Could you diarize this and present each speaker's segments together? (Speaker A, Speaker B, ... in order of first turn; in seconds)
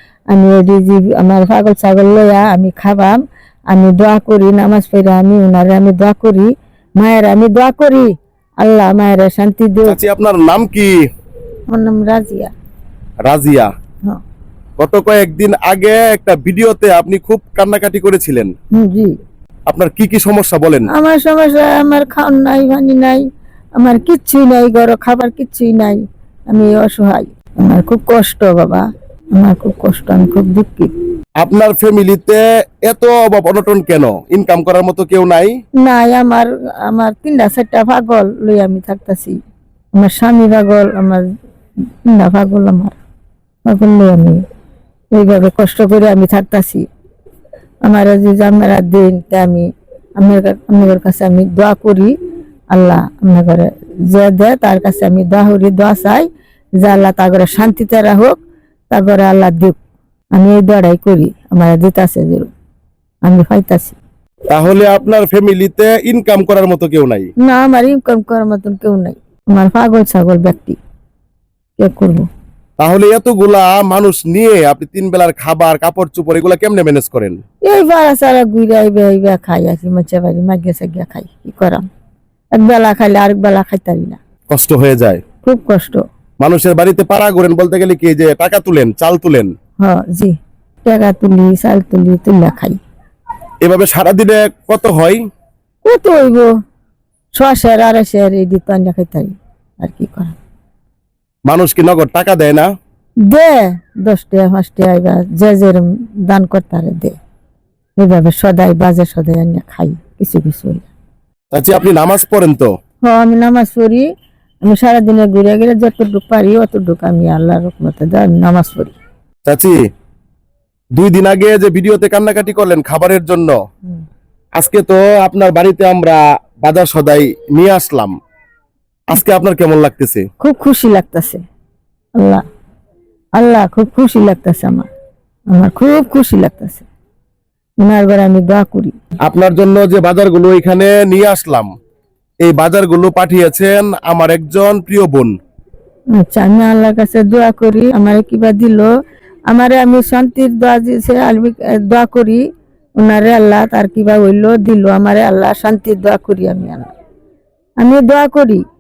Speaker A: 0.3-3.2, 3.7-10.0, 11.7-12.5, 18.7-19.1, 20.9-23.2, 23.8-30.9, 35.8-39.4, 40.0-41.3, 42.0-43.0, 43.6-44.4, 45.1-46.9, 47.8-52.1, 52.7-56.3, 56.8-58.4, 58.9-59.8, 60.3-62.5, 63.2-64.0, 67.4-70.8, 71.8-72.3, 77.6-81.8, 82.5-84.2, 85.4-86.0, 89.8-92.8, 95.8-96.5, 97.3-100.4, 103.3-107.2, 108.0-110.9, 113.0-114.1, 114.7-119.0, 130.4-131.4, 132.2-132.4, 133.3-134.9, 135.5-136.9, 137.8-138.9, 146.2-148.9, 149.5-152.4, 153.0-156.9, 157.8-158.6
Speaker B: 9.9-10.9, 13.3-13.7, 14.8-18.5, 19.7-20.9, 31.4-35.5, 64.5-67.3, 72.8-77.4, 84.5-85.2, 86.4-89.5, 93.6-95.2, 101.5-102.7, 111.5-112.7, 119.5-119.8, 121.0-123.5, 124.6-128.1, 129.1-130.2, 139.2-141.7, 142.4-145.3